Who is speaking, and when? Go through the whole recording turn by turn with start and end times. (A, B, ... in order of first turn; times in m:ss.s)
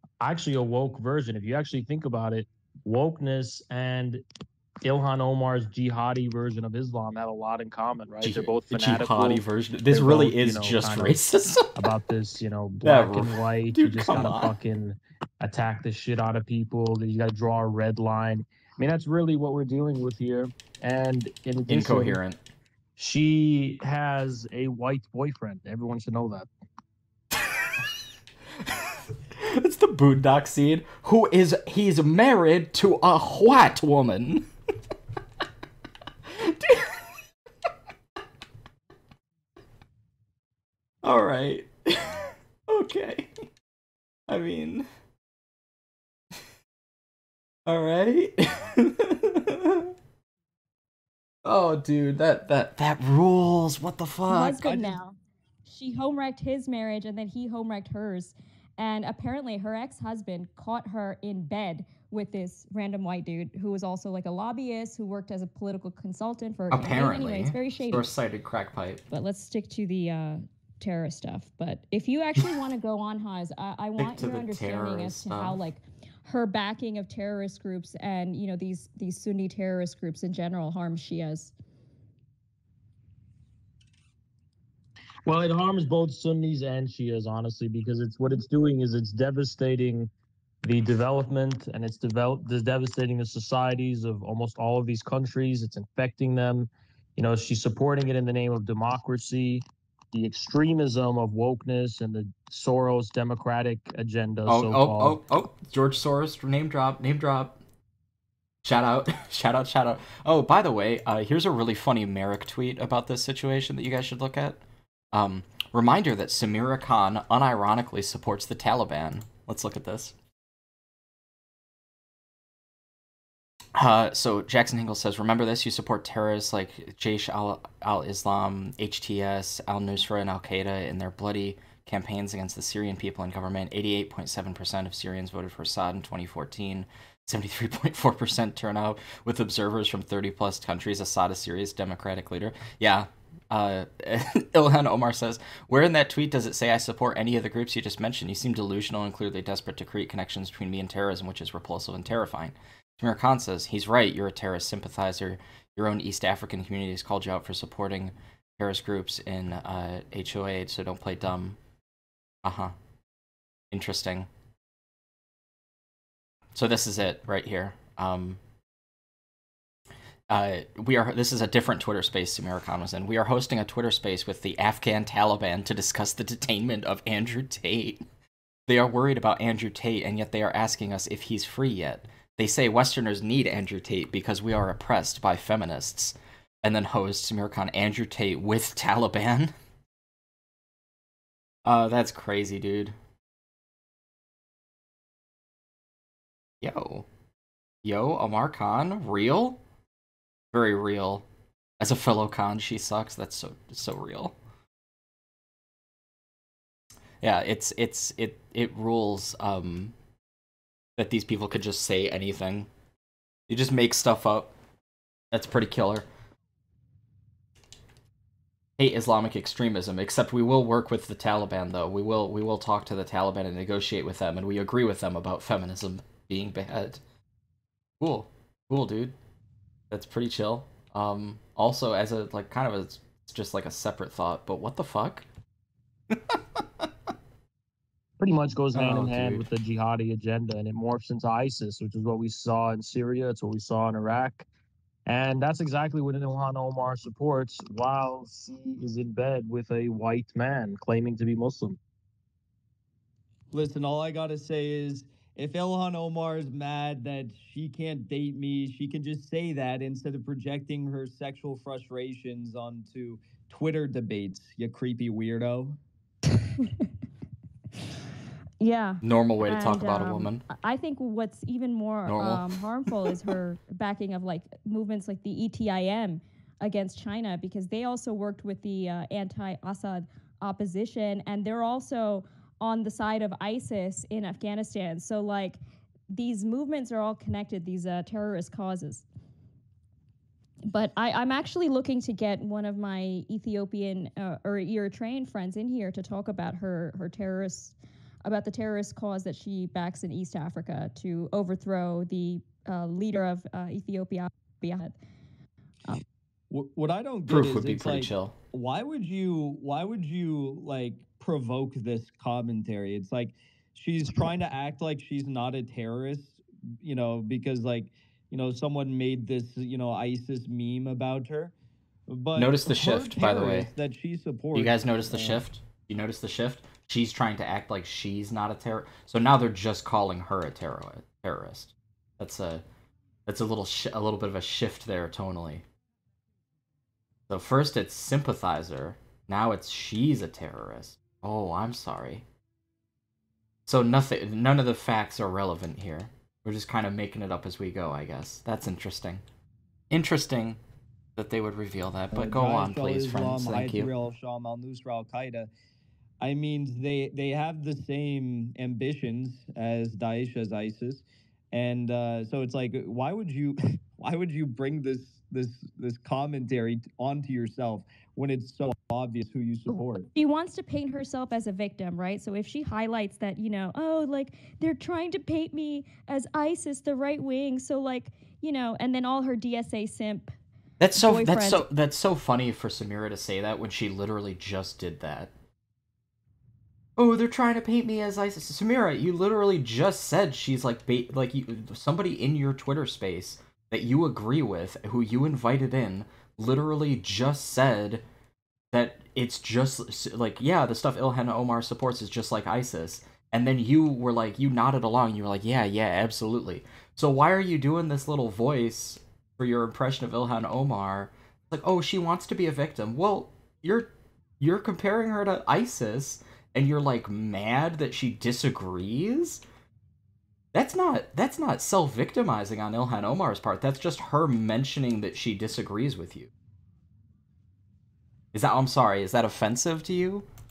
0:00.2-0:04.2 A
0:04.8-0:22.2 A
0:08.2-0:11.7 B
0:12.8-0:14.5 B
0:21.7-0:22.4 B
0:23.0-0:26.5 A
0:28.6-0:34.5 B
0:36.3-0:37.0 B
0:41.0-0:43.3 B
0:44.3-0:44.9 B
0:47.7-0:49.9 B
0:51.4-0:54.6 B
0:54.3-0:55.1 C
0:54.6-0:55.0 D
0:55.6-1:08.1 C
1:06.7-1:09.0 B
1:09.1-1:21.5 C
1:14.0-1:15.6 B
1:25.2-1:30.1 A
1:30.6-1:45.2 A
1:44.5-1:47.6 B
1:48.6-1:54.6 B
1:55.1-2:00.1 B
2:03.7-2:41.6 B
2:42.4-2:42.7 B
2:43.7-2:44.3 B
2:46.6-2:48.4 B
2:50.3-2:58.0 B
2:58.7-3:09.5 B
3:11.6-3:12.9 B
3:16.6-3:17.1 B
3:17.8-3:19.6 B
3:20.5-3:21.2 B
3:21.8-3:24.4 B
3:27.2-3:29.9 B
3:31.0-3:32.7 B
3:33.5-3:34.6 B
3:35.3-3:36.1 B
3:38.8-3:47.0 B
3:48.0-3:49.1 B
3:49.9-3:55.2 B
3:56.1-3:56.9 B
3:58.2-4:04.4 A
3:58.7-3:59.5 B
4:05.1-4:11.8 A
4:13.5-4:25.8 D
4:26.5-4:26.9 C
4:28.6-4:45.6 C
4:29.0-4:30.4 B
4:32.1-4:33.1 B
4:46.1-4:49.0 C
4:50.7-5:04.9 C
5:06.5-5:21.5 D
5:07.3-5:08.4 B
5:22.1-5:25.4 D
5:22.4-5:23.7 B
5:24.5-5:32.6 B
5:33.2-5:35.6 B
5:37.3-5:42.2 B
5:43.7-5:49.2 B
5:49.9-5:50.6 B
5:51.2-5:53.9 B
5:52.1-5:55.5 D
5:56.2-6:10.1 D
6:10.1-6:20.3 C
6:20.8-6:25.3 B
6:21.0-6:21.7 C
6:27.0-6:38.0 B
6:38.7-6:59.4 B
7:00.5-7:06.3 B
7:08.3-7:10.3 B